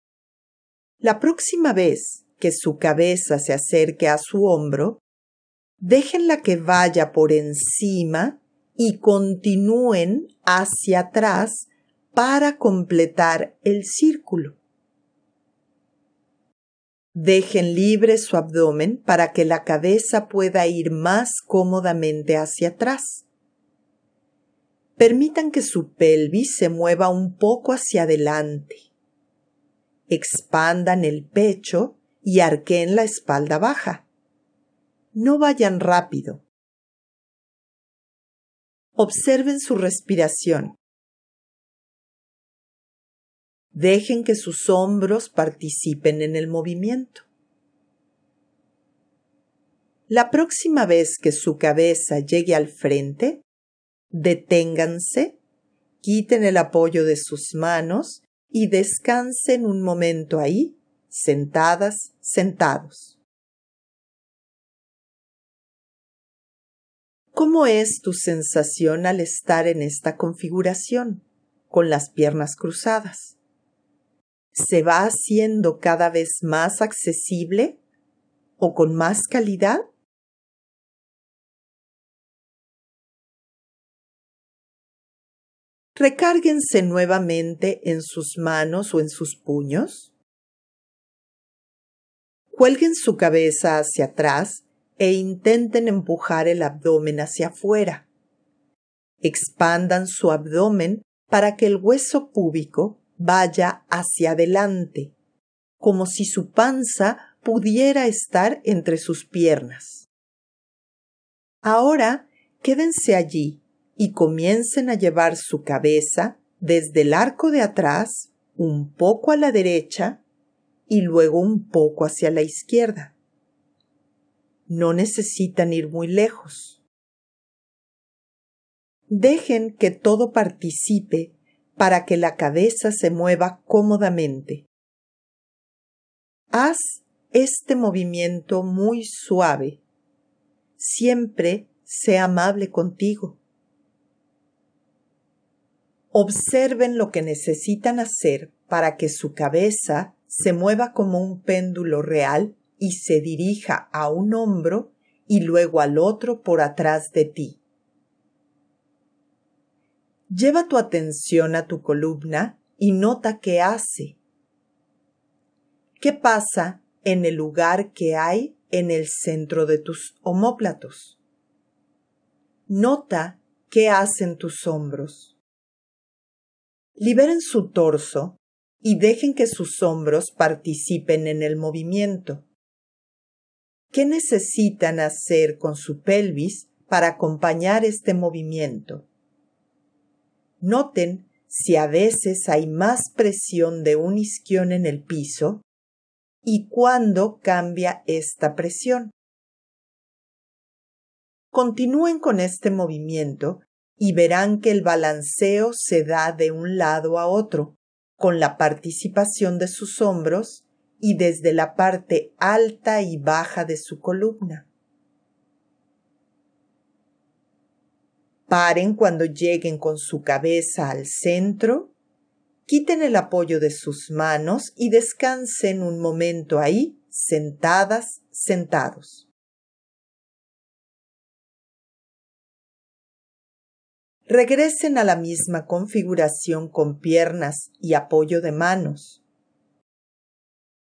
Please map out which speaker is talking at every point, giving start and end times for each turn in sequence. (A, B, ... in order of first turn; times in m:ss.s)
0:01.0-0:05.0 A
0:05.8-0:14.6 A
0:17.1-0:23.2 A
0:25.0-0:28.9 A
0:30.1-0:34.0 A
0:35.1-0:36.4 A
0:39.0-0:40.8 A
0:43.7-0:47.2 A
0:50.1-0:53.4 A
0:54.1-0:55.4 A
0:56.0-1:03.2 A
1:07.3-1:13.4 A
1:14.5-1:17.8 A
1:18.6-1:19.8 A
1:25.9-1:30.1 A
1:32.5-1:38.0 A
1:39.2-1:45.1 A
1:45.8-1:50.1 A
1:51.6-2:00.2 A
2:00.9-2:03.1 A
2:04.7-2:06.8 A
2:09.1-2:14.7 A
2:16.5-2:19.8 A
2:20.8-2:23.4 A
2:26.1-2:37.6 A
2:40.3-2:44.2 A
2:46.0-2:51.2 A
2:52.7-2:55.3 A
2:57.0-3:02.4 A
3:03.9-3:09.0 A
3:10.6-3:15.6 A
3:16.4-3:19.1 A
3:21.5-3:34.7 A
3:38.5-3:41.9 A
3:42.6-3:49.3 A
3:54.3-3:59.2 A